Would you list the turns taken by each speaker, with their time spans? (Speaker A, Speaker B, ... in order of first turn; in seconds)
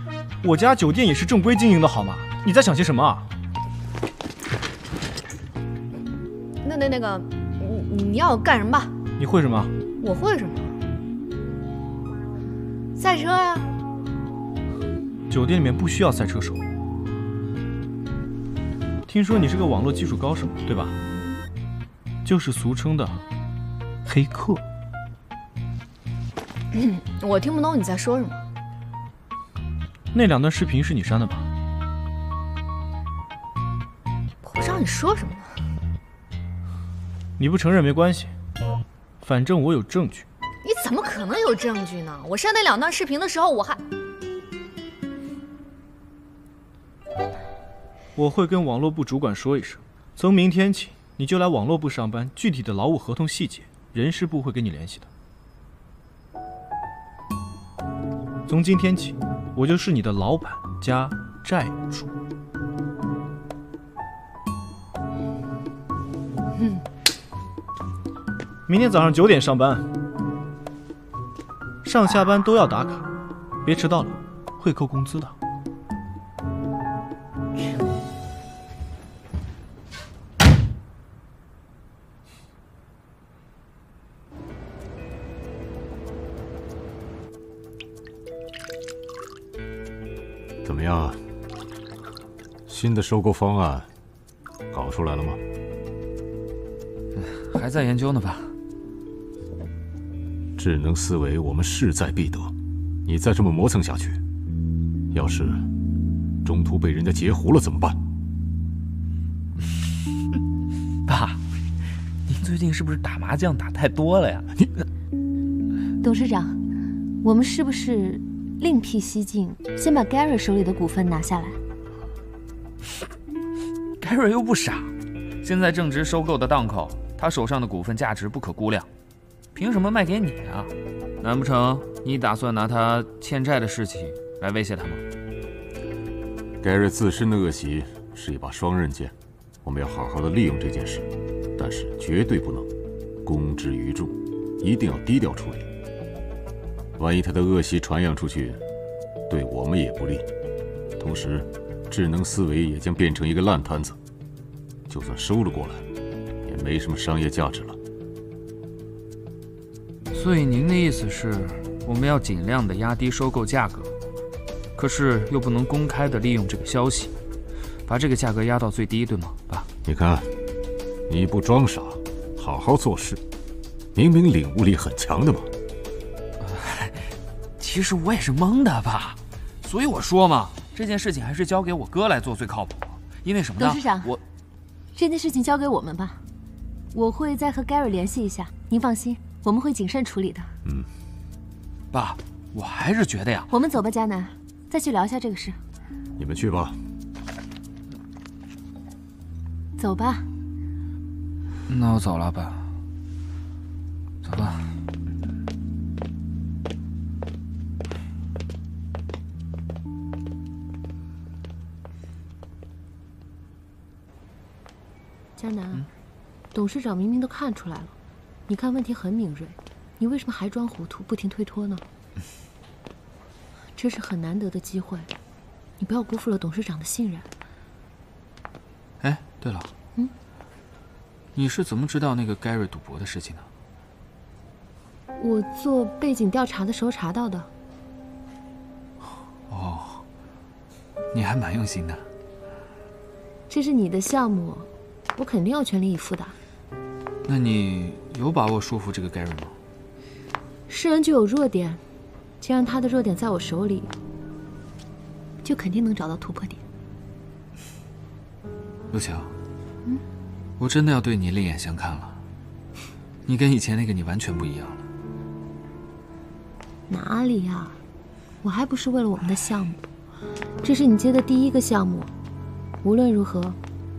Speaker A: 0.4-3.3, 9.2-9.7, 15.3-16.6, 19.1-20.9, 22.2-23.2, 24.1-24.6, 30.1-31.5, 37.4-38.3, 39.2-40.3, 48.1-55.1, 58.5-62.1, 68.7-69.8, 71.8-73.1, 73.6-75.3
Speaker B: 6.6-8.9, 10.0-10.7, 13.0-13.7, 26.7-28.4, 34.4-35.5, 40.6-43.8
Speaker C: 90.6-91.2, 92.7-93.9, 94.7-95.4, 100.6-102.5, 103.1-104.2, 105.1-105.7, 106.4-108.0, 136.6-139.1, 139.6-141.1, 141.6-142.7, 143.2-145.7, 147.0-148.6, 149.3-150.3, 151.0-154.0, 154.9-155.8, 156.5-157.8, 169.8-170.3, 171.1-173.2, 173.9-175.5, 196.2-196.8
Speaker D: 97.2-98.5, 111.1-111.4, 112.3-114.5, 124.0-124.9, 125.4-128.9, 129.5-130.7, 131.2-135.0, 160.1-163.9, 164.8-167.1, 167.9-169.7, 176.4-177.0, 177.6-184.2, 191.9-193.5, 201.7-202.7, 204.2-204.7, 229.0-229.7, 231.3-233.4, 239.5-240.0, 241.1-242.0, 247.3-249.5, 258.9-259.3, 260.6-262.2, 263.2-264.8
Speaker E: 116.0-116.6, 117.2-121.6, 183.6-184.1, 184.9-186.2, 186.9-190.5, 193.5-195.6, 199.8-200.3, 215.4-215.9, 216.5-217.9, 218.5-221.8, 223.8-225.1, 225.8-227.2, 235.2-237.5, 243.5-246.3, 250.7-251.8, 252.4-253.9, 255.4-256.6, 266.9-267.8, 268.4-269.8, 270.6-272.1, 272.8-273.6